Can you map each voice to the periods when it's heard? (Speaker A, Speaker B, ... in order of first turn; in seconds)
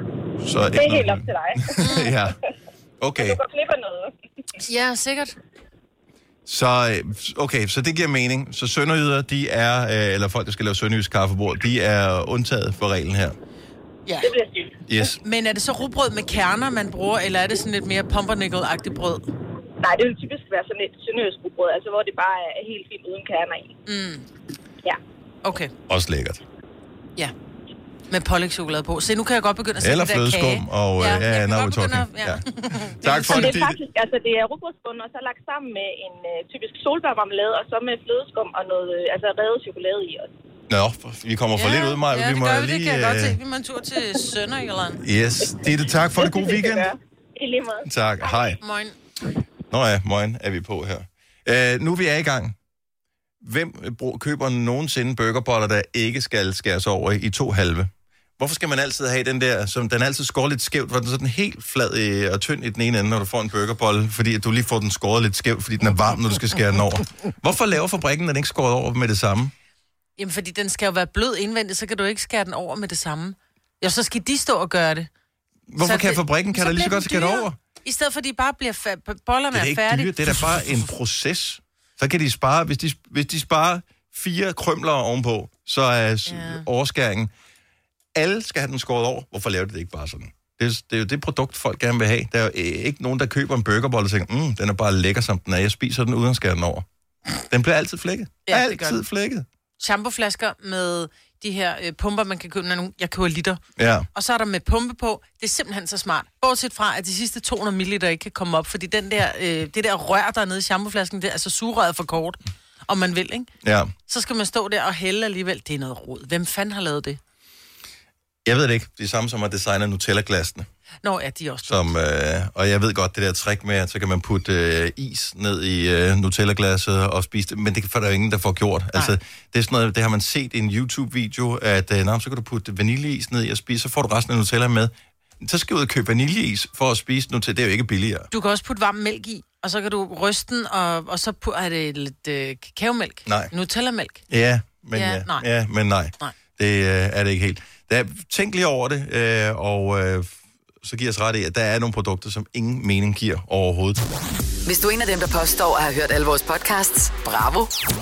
Speaker A: 0.4-2.4, 3.0-3.4, 6.5-13.4, 14.9-15.2, 25.9-26.4, 29.8-33.8, 40.7-43.4, 45.0-46.9, 47.9-48.6, 49.7-52.6, 53.4-69.5, 75.7-77.6, 79.5-87.3, 88.2-96.9, 97.5-99.5, 103.8-104.1, 113.6-113.9, 118.5-120.7, 121.7-138.3, 143.3-143.5, 144.3-154.0
Speaker B: 0.7-2.3, 3.2-4.1, 14.2-14.8, 19.8-23.8, 33.2-40.3, 45.5-47.9
Speaker C: 1.8-2.1, 4.6-5.4, 14.1-14.3, 15.2-19.3, 23.9-24.3, 25.4-25.7, 28.1-33.6, 41.6-45.0, 48.6-49.0, 70.2-75.1, 75.8-80.9, 86.3-86.7, 98.5-99.0, 99.8-103.6, 104.1-113.5, 114.1-117.2, 121.0-121.9, 138.3-144.2, 144.9-145.5
Speaker D: 154.7-157.7